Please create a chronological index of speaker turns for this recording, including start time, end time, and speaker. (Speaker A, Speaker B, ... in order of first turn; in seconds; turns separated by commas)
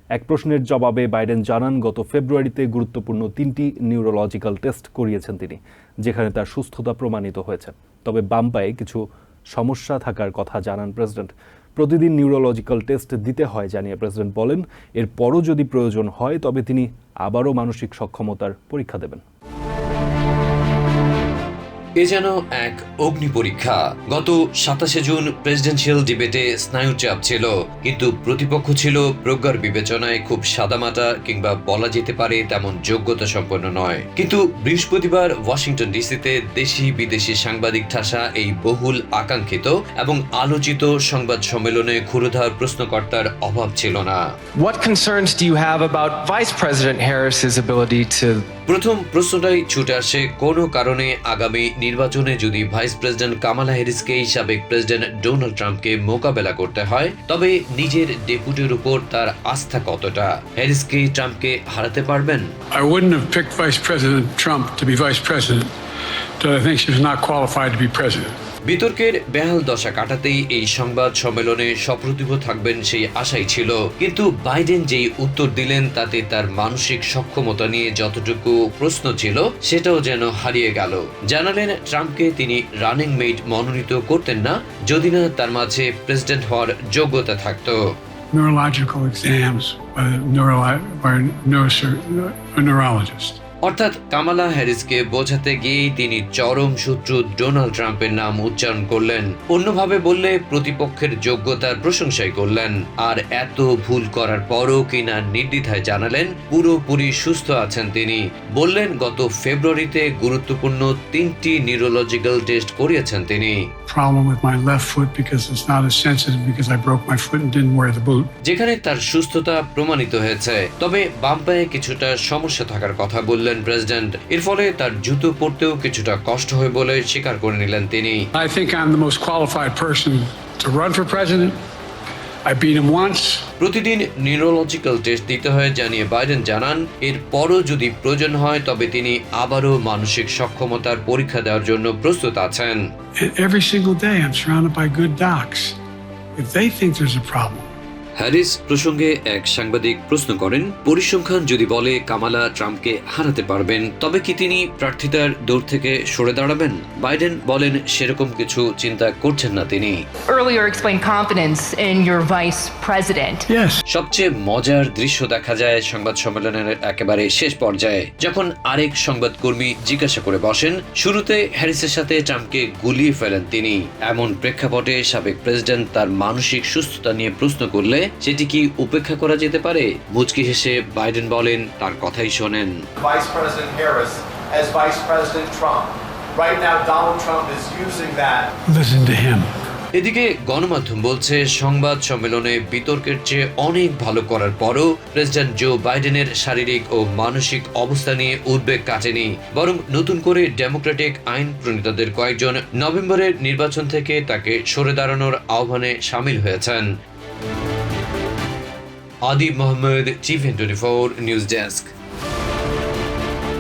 Speaker A: 0.1-9.0, Speaker A: 9.5-19.2, Speaker B: 22.0-44.2, Speaker C: 44.5-48.5, Speaker B: 48.7-62.5, Speaker D: 62.7-65.7, Speaker D: 66.4-68.3, Speaker B: 68.7-87.8, Speaker D: 88.3-93.4, Speaker B: 93.6-113.6, Speaker D: 113.9-118.3, Speaker B: 118.5-128.3, Speaker D: 128.3-131.6, Speaker D: 132.5-133.5, Speaker B: 133.6-142.8, Speaker D: 143.2-145.8, Speaker D: 146.4-147.7, Speaker B: 148.2-160.0, Speaker E: 160.3-163.4, Speaker D: 163.5-163.8, Speaker B: 163.9-182.7, Speaker F: 183.0-188.5, Speaker D: 188.7-189.5, Speaker B: 189.9-206.8, Speaker B: 209.3-211.9